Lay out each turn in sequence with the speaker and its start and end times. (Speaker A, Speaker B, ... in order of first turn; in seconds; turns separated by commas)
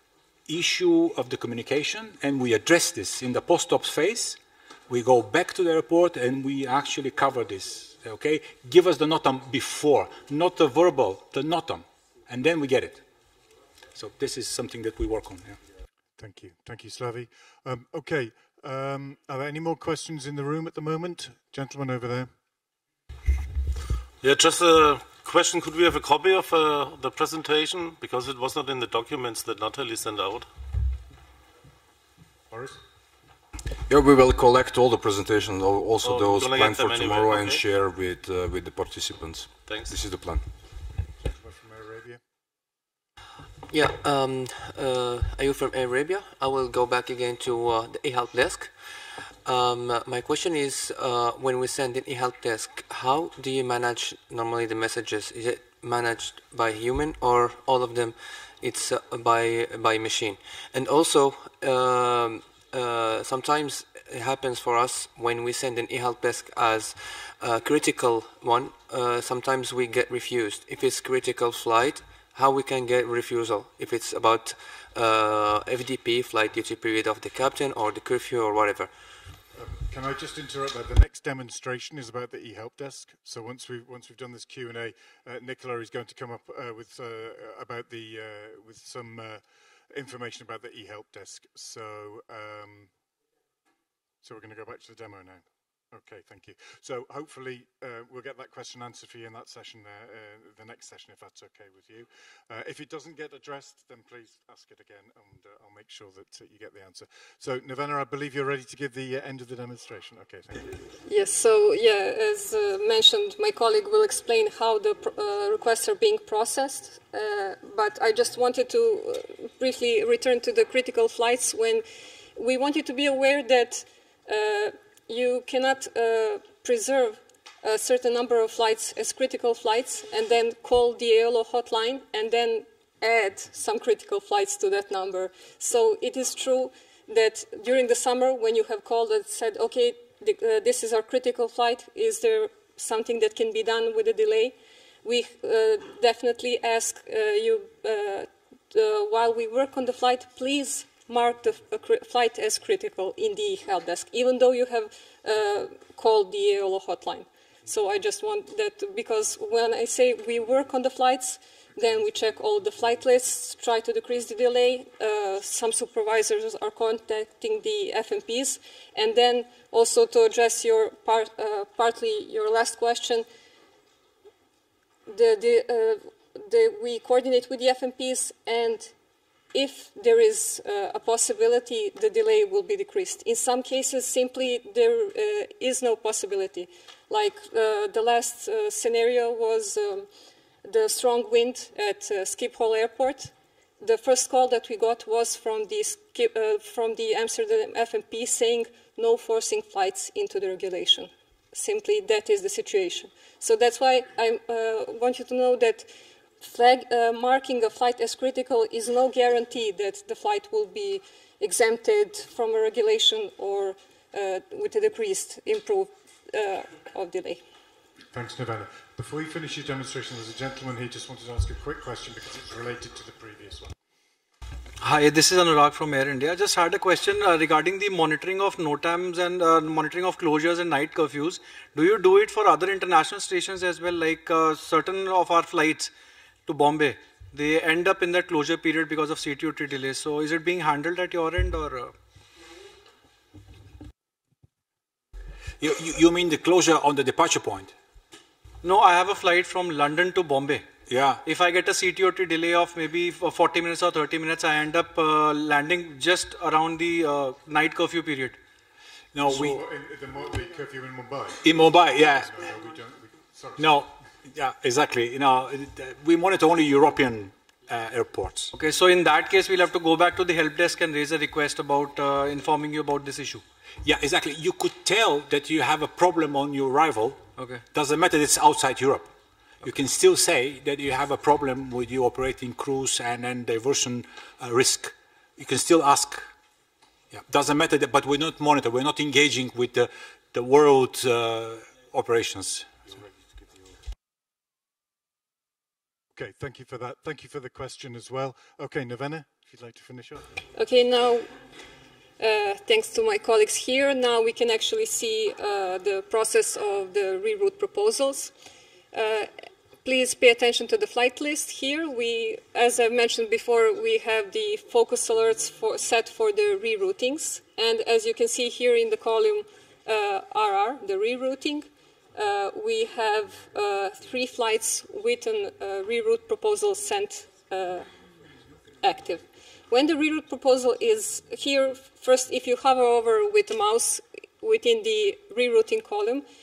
Speaker A: 0.5-13.0, Speaker A: 13.9-15.6, Speaker B: 16.2-22.3, Speaker C: 24.2-30.5, Speaker B: 32.5-32.8, Speaker D: 33.9-40.4, Speaker C: 36.0-37.6, Speaker C: 39.6-40.0, Speaker B: 41.2-42.2, Speaker E: 43.7-78.9, Speaker B: 79.5-92.9, Speaker B: 94.2-110.8, Speaker F: 111.0-121.8, Speaker F: 122.3-173.2, Speaker F: 175.1-178.9, Speaker F: 179.5-190.1, Speaker F: 190.6-205.9, Speaker F: 206.4-217.4, Speaker B: 218.1-223.7, Speaker G: 224.8-235.9, Speaker G: 236.4-241.9, Speaker A: 245.6-247.7, Speaker G: 248.6-250.7, Speaker A: 250.9-251.2, Speaker G: 251.2-258.4, Speaker A: 259.1-259.6, Speaker B: 259.2-263.9, Speaker A: 261.4-262.3, Speaker A: 263.6-268.5, Speaker G: 268.5-273.4, Speaker A: 273.8-279.1, Speaker G: 277.4-277.6, Speaker A: 279.6-286.3, Speaker A: 287.1-292.8, Speaker B: 296.1-300.3, Speaker F: 300.5-301.3, Speaker F: 302.2-308.3, Speaker F: 308.9-309.3, Speaker F: 309.8-327.9, Speaker F: 328.8-336.2